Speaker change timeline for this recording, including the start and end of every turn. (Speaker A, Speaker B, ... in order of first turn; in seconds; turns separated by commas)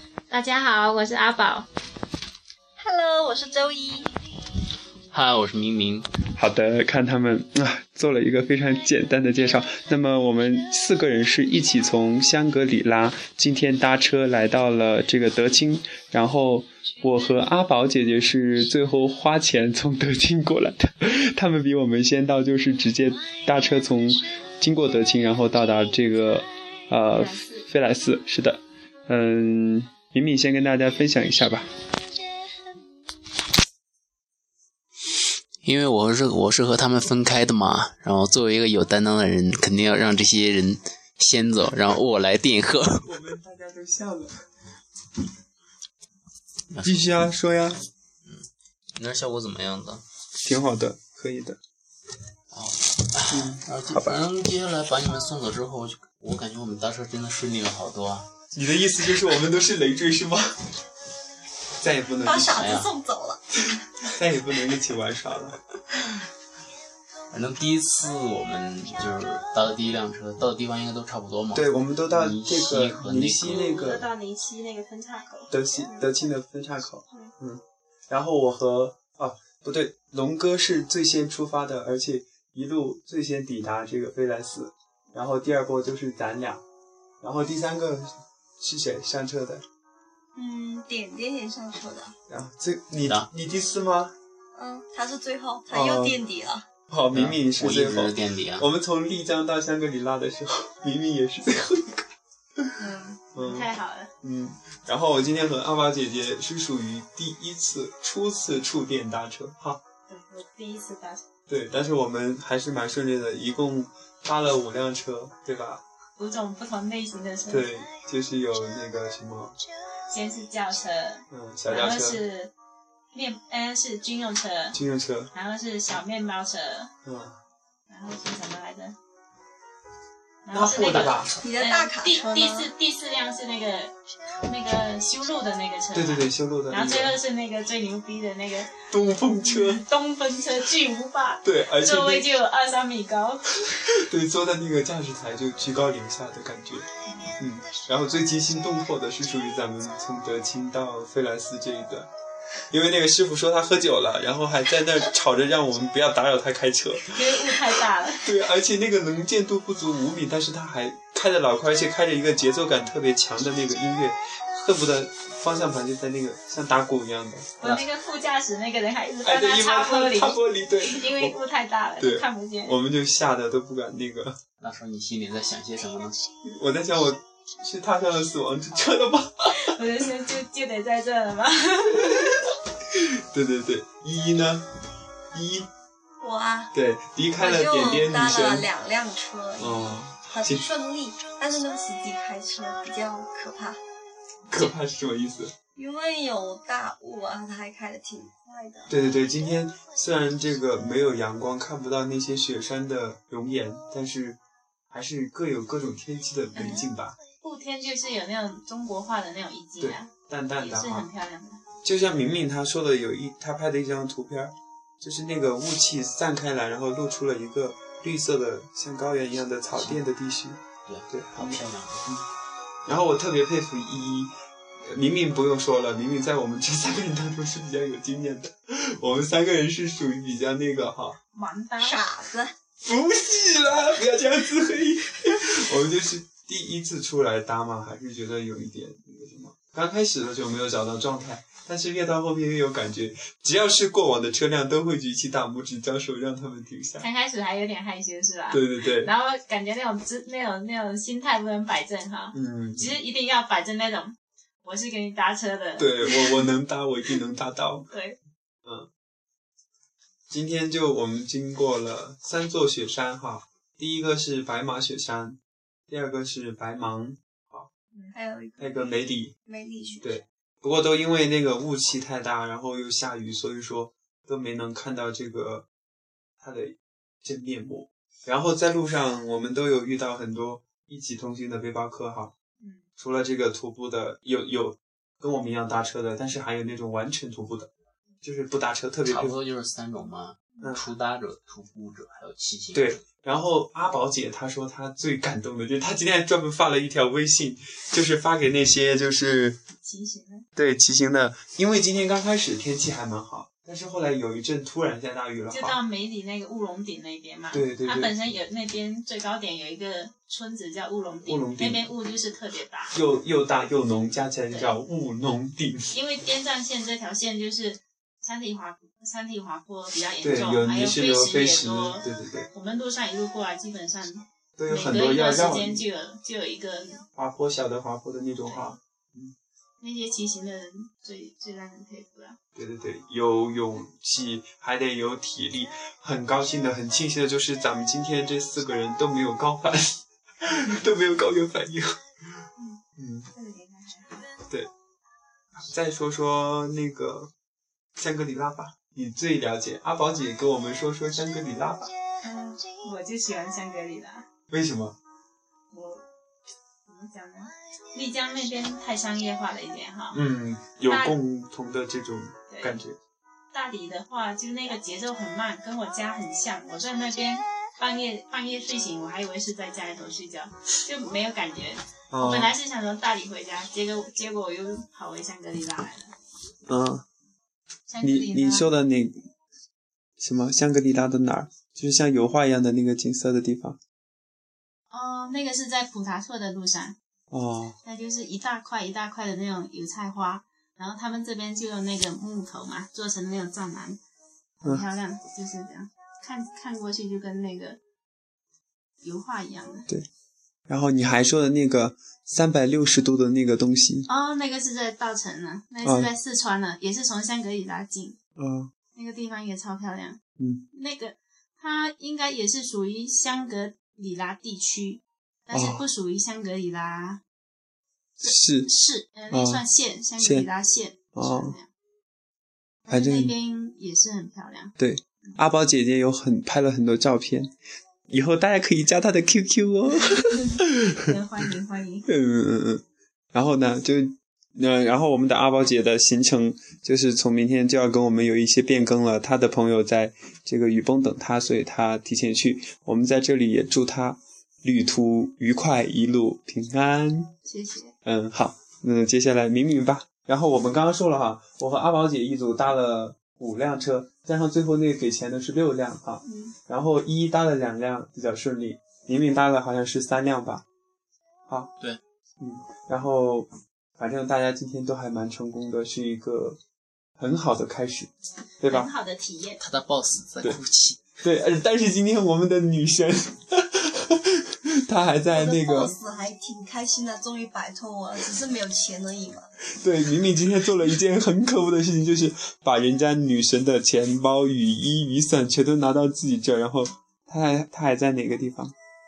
Speaker A: 0.3-1.7, Speaker B: 2.8-4.2, Speaker C: 5.1-6.1, Speaker D: 6.3-31.7, Speaker A: 27.1-27.7, Speaker C: 35.6-43.0, Speaker D: 43.0-44.3, Speaker C: 46.7-47.3, Speaker D: 46.8-47.8, Speaker C: 48.2-50.0, Speaker D: 50.4-51.6, Speaker C: 52.5-58.3, Speaker D: 53.3-54.1, Speaker D: 58.5-60.5, Speaker D: 61.8-62.6, Speaker B: 62.2-63.4, Speaker C: 62.5-62.9, Speaker D: 63.8-65.6, Speaker C: 67.3-73.8, Speaker D: 71.5-74.0, Speaker A: 73.5-76.1, Speaker D: 75.5-86.6, Speaker D: 87.2-89.6, Speaker B: 90.3-92.1, Speaker D: 92.3-94.1, Speaker B: 94.5-96.7, Speaker D: 95.7-96.2, Speaker D: 96.9-102.1, Speaker C: 97.1-98.7, Speaker B: 102.8-103.2, Speaker D: 103.3-109.8, Speaker A: 103.3-104.1, Speaker A: 110.1-111.2, Speaker D: 111.5-115.8, Speaker A: 116.2-117.7, Speaker D: 117.5-119.6, Speaker A: 120.1-122.5, Speaker D: 121.3-122.2, Speaker A: 123.1-124.8, Speaker D: 124.7-125.3, Speaker A: 125.3-126.9, Speaker D: 127.0-127.4, Speaker A: 127.9-128.9, Speaker A: 130.4-138.8, Speaker D: 130.5-131.4, Speaker B: 131.4-132.7, Speaker D: 135.9-137.2, Speaker D: 138.8-139.8, Speaker A: 139.4-143.5, Speaker D: 141.4-142.3, Speaker D: 144.0-146.8, Speaker D: 147.4-152.1, Speaker D: 152.7-157.6, Speaker A: 157.1-158.3, Speaker D: 158.2-167.8, Speaker A: 167.6-172.8, Speaker D: 169.2-171.4, Speaker D: 172.0-174.4, Speaker C: 174.6-176.2, Speaker D: 176.4-179.7, Speaker A: 179.6-182.4, Speaker D: 182.9-184.6, Speaker D: 185.3-185.7, Speaker B: 186.2-186.7, Speaker D: 186.7-188.7, Speaker B: 187.4-193.8, Speaker D: 189.6-190.7, Speaker D: 194.5-195.5, Speaker B: 195.7-198.9, Speaker D: 198.9-204.4, Speaker D: 204.9-207.2, Speaker A: 206.5-206.9, Speaker A: 207.4-211.6, Speaker D: 209.8-211.1, Speaker D: 211.8-222.3, Speaker C: 219.7-220.0, Speaker C: 220.8-222.1, Speaker D: 222.8-224.3, Speaker D: 224.8-231.2, Speaker A: 231.3-232.0, Speaker B: 231.8-232.5, Speaker D: 232.8-247.1, Speaker A: 247.0-256.5, Speaker D: 248.5-249.1, Speaker D: 252.3-252.9, Speaker D: 255.8-257.9, Speaker A: 257.9-258.2, Speaker D: 260.3-267.7, Speaker B: 268.1-270.1, Speaker D: 268.6-269.3, Speaker D: 270.0-275.7, Speaker D: 276.4-282.3, Speaker A: 282.6-282.8, Speaker D: 283.0-287.7, Speaker D: 288.2-289.4, Speaker C: 289.0-292.9, Speaker D: 290.6-290.9, Speaker D: 292.7-299.6, Speaker A: 299.8-300.5, Speaker D: 300.6-305.8, Speaker A: 305.5-312.9, Speaker D: 307.5-308.1, Speaker D: 311.2-311.9, Speaker D: 312.9-315.9, Speaker A: 314.5-314.8, Speaker A: 315.9-327.0, Speaker D: 320.2-322.5, Speaker D: 324.6-325.8, Speaker D: 327.1-329.3, Speaker A: 328.4-328.7, Speaker A: 329.8-332.4, Speaker D: 332.5-342.0, Speaker D: 343.0-343.3, Speaker A: 343.4-344.2, Speaker D: 345.6-347.3, Speaker D: 348.0-351.9, Speaker A: 352.2-354.2, Speaker D: 354.5-355.0, Speaker A: 355.7-356.0, Speaker A: 356.9-360.2, Speaker D: 360.1-363.0, Speaker A: 360.9-361.2, Speaker A: 362.5-362.8, Speaker A: 363.5-376.1, Speaker D: 372.1-372.5, Speaker D: 376.6-377.0, Speaker A: 377.9-378.7, Speaker D: 378.0-379.2, Speaker D: 380.2-383.8, Speaker A: 384.9-386.9, Speaker D: 387.3-387.8, Speaker A: 387.8-394.0, Speaker A: 394.6-397.8, Speaker A: 399.0-399.9, Speaker D: 400.7-404.1, Speaker A: 404.1-408.2, Speaker D: 405.8-406.1, Speaker D: 408.4-408.7, Speaker A: 408.9-410.2, Speaker D: 410.4-410.6, Speaker A: 410.7-417.2, Speaker D: 415.5-415.8, Speaker A: 418.2-421.7, Speaker D: 418.2-418.7, Speaker D: 419.3-419.6, Speaker D: 420.2-420.5, Speaker D: 421.1-421.6, Speaker A: 422.9-424.7, Speaker D: 422.9-423.3, Speaker D: 424.8-427.5, Speaker D: 428.1-430.9, Speaker A: 430.3-432.1, Speaker D: 432.1-447.3, Speaker A: 447.4-447.9, Speaker D: 448.0-460.6, Speaker A: 456.2-456.5, Speaker D: 462.4-466.6, Speaker D: 467.2-468.9, Speaker A: 468.7-469.6, Speaker C: 469.6-471.0, Speaker D: 471.2-475.9, Speaker B: 475.3-479.5, Speaker D: 479.8-488.7